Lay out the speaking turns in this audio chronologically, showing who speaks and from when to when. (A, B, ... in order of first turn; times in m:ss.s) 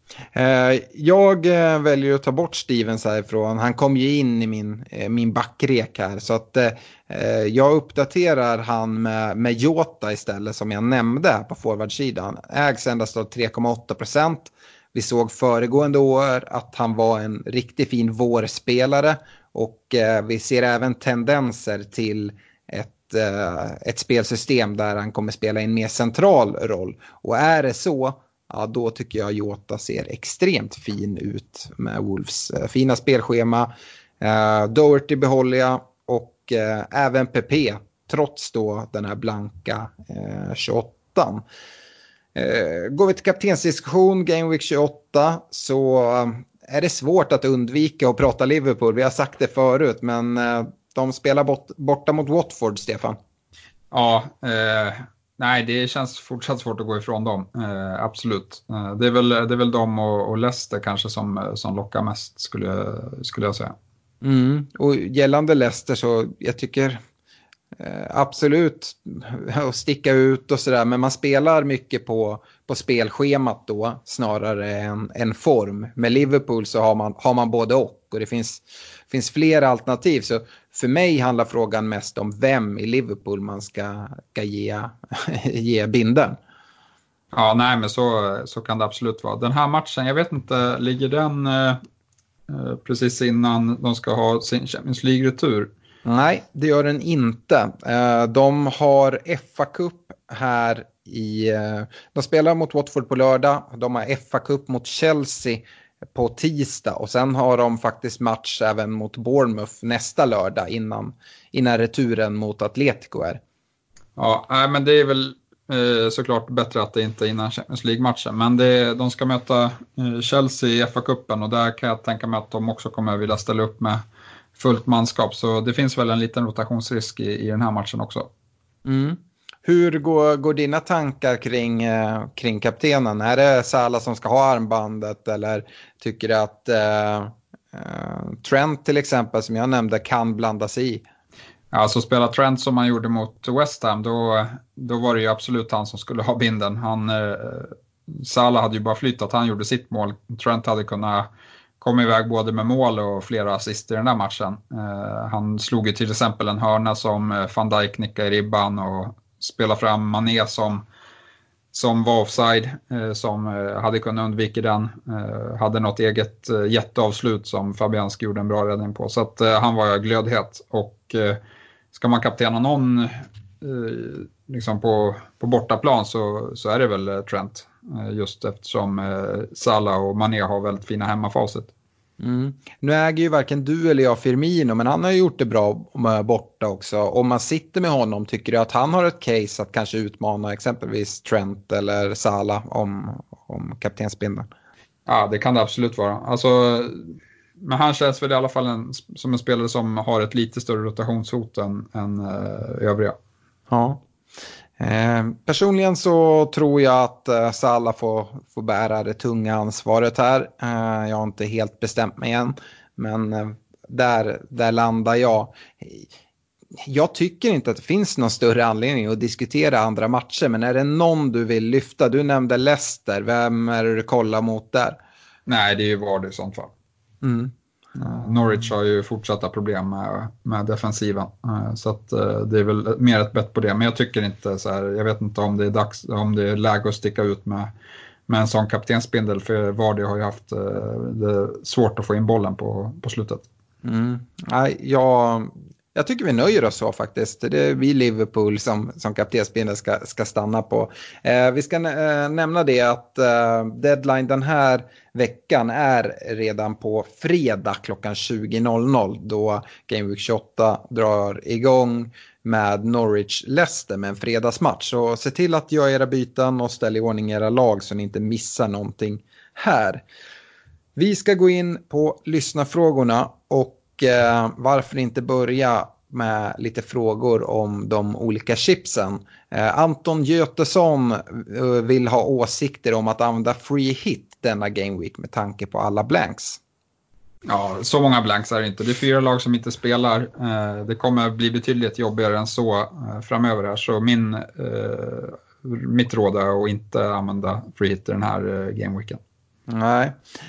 0:00.3-0:33.7 A
0:34.2-0:41.4 A
0:42.3-0:53.2 A
0:53.9-1:03.7 B
1:04.2-1:07.0 A
1:07.8-1:26.4 A
1:27.3-1:31.8 B
1:32.5-1:35.7 B
1:36.0-1:45.6 A
1:46.1-1:53.4 A
1:54.2-2:04.0 B
2:04.6-2:08.3 B
2:08.8-2:21.0 A
2:21.7-2:31.3 B
2:31.8-2:40.8 B
2:41.7-2:51.4 B
2:51.9-3:01.7 B
3:02.2-3:14.5 A
3:15.0-3:23.2 B
3:23.7-3:24.0 A
3:24.8-3:36.1 A
3:36.8-3:45.0 A
3:45.4-3:46.7 B
3:47.2-3:47.5 A
3:48.0-3:57.7 B
3:58.3-4:03.4 B
4:03.8-4:30.0 A
4:31.0-4:46.6 A
4:47.4-4:59.2 B
4:59.7-5:00.2 A